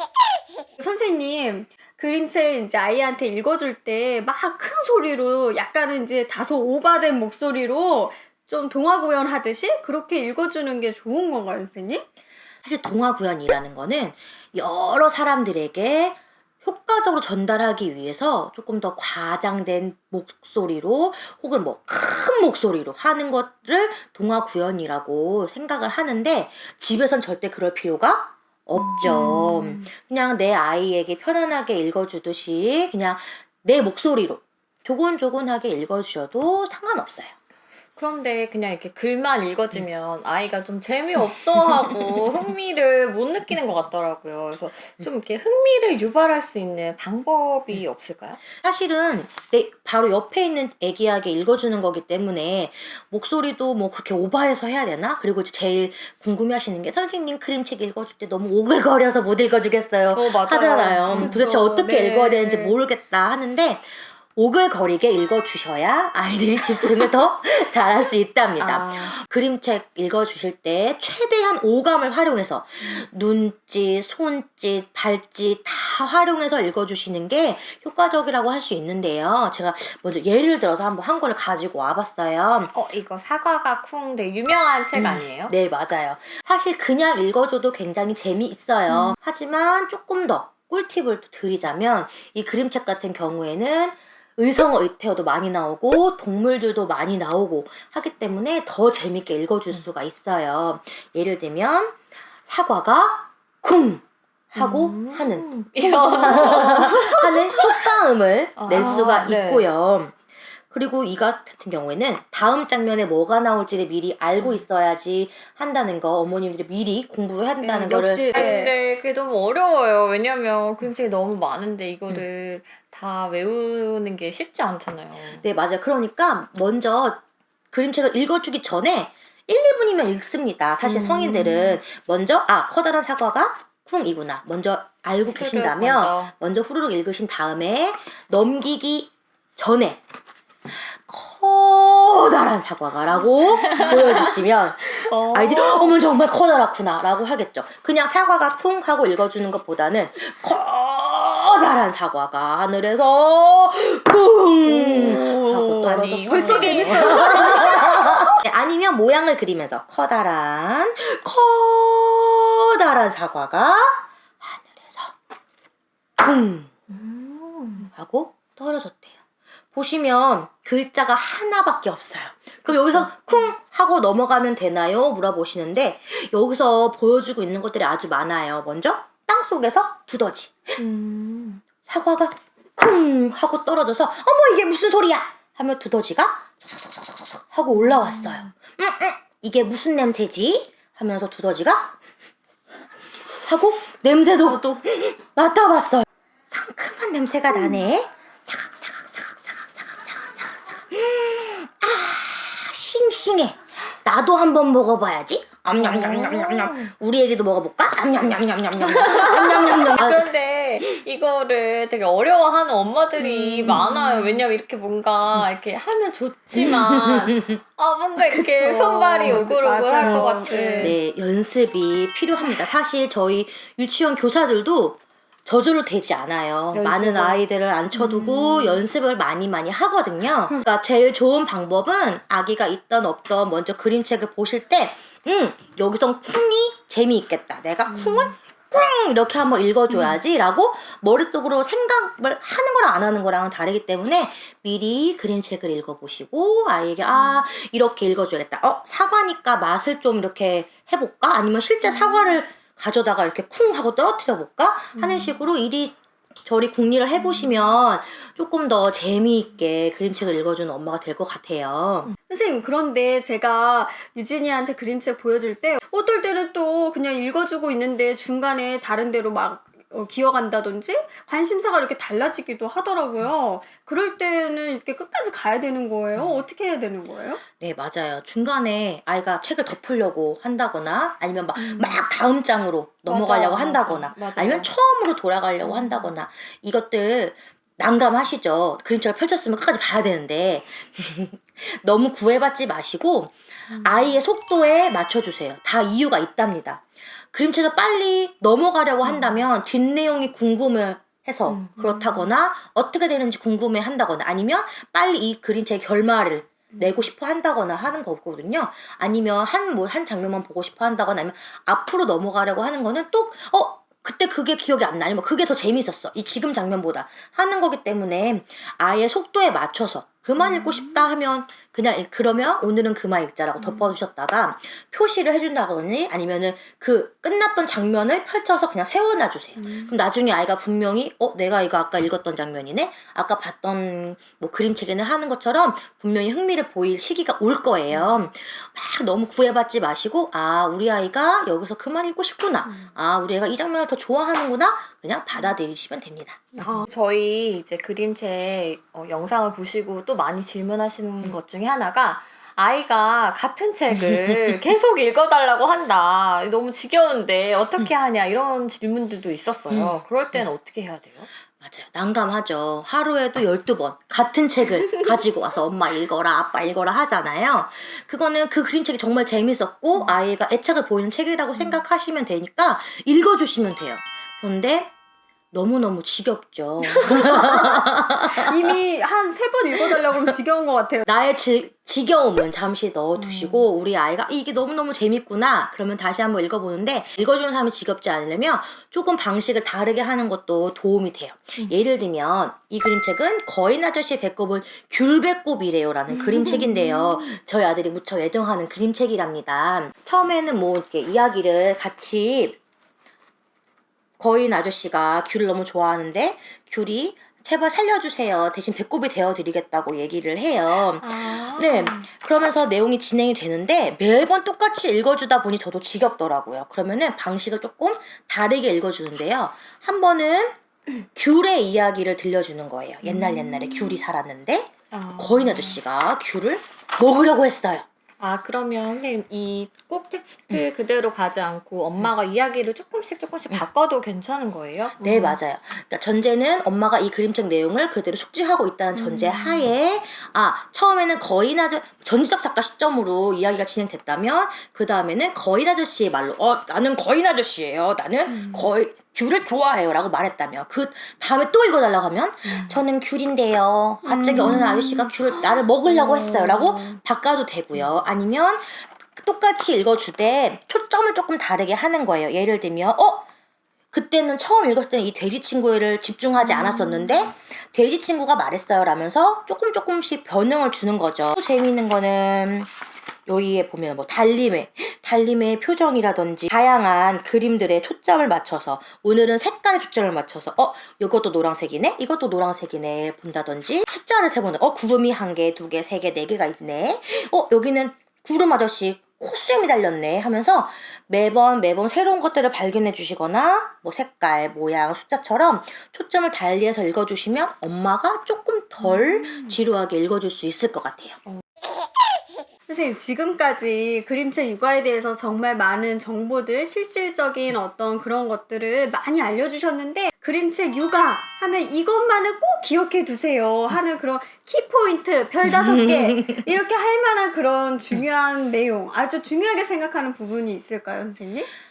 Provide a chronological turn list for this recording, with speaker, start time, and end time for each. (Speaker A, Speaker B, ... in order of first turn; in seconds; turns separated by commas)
Speaker A: 0.8-12.1, Speaker B: 12.6-37.3, Speaker C: 28.8-29.9, Speaker C: 38.0-48.4, Speaker B: 48.6-82.7, Speaker C: 60.1-61.4, Speaker A: 61.1-62.8, Speaker C: 68.6-69.2, Speaker C: 82.7-85.5, Speaker B: 85.0-110.2, Speaker C: 88.9-89.1, Speaker C: 104.6-107.8, Speaker C: 108.6-109.7, Speaker A: 108.8-109.0, Speaker B: 110.7-118.5, Speaker A: 117.6-118.7, Speaker C: 118.3-125.4, Speaker B: 125.4-140.0, Speaker C: 130.8-131.8, Speaker C: 135.3-136.3, Speaker B: 140.7-165.2, Speaker C: 143.2-146.0, Speaker C: 154.7-158.1, Speaker A: 154.7-157.9, Speaker B: 166.2-166.7, Speaker C: 166.9-167.9, Speaker B: 167.9-169.2, Speaker B: 169.7-180.8, Speaker C: 172.7-173.1, Speaker C: 180.8-181.6, Speaker B: 181.8-191.9, Speaker C: 187.9-188.4, Speaker B: 193.4-210.2, Speaker A: 194.5-194.8, Speaker C: 205.8-206.9, Speaker C: 208.8-221.0, Speaker B: 213.2-214.1, Speaker B: 216.6-217.6, Speaker A: 218.3-221.0, Speaker B: 220.0-220.2, Speaker B: 220.8-262.1, Speaker C: 226.7-228.8, Speaker C: 252.0-252.3, Speaker C: 254.9-255.3, Speaker A: 262.3-277.4, Speaker B: 276.1-276.4, Speaker B: 277.6-346.7, Speaker C: 281.6-281.9, Speaker C: 283.1-284.7, Speaker C: 285.6-286.1, Speaker C: 293.7-294.1, Speaker C: 299.1-299.4, Speaker C: 301.5-302.3, Speaker A: 329.6-329.9, Speaker C: 346.6-361.3, Speaker B: 353.9-354.5, Speaker B: 359.7-360.5, Speaker B: 361.6-374.9, Speaker B: 375.5-378.8, Speaker A: 377.1-381.1, Speaker B: 379.8-380.3, Speaker B: 381.1-402.6, Speaker C: 383.1-383.7, Speaker C: 396.1-397.1, Speaker B: 404.2-427.8, Speaker C: 410.9-412.1, Speaker C: 423.0-424.0, Speaker C: 424.9-425.8, Speaker C: 428.2-435.4, Speaker B: 435.0-463.2, Speaker C: 438.9-439.7, Speaker A: 454.1-454.6, Speaker C: 454.3-454.6, Speaker B: 463.9-472.7, Speaker B: 473.2-501.2, Speaker A: 502.7-521.5, Speaker B: 515.4-516.5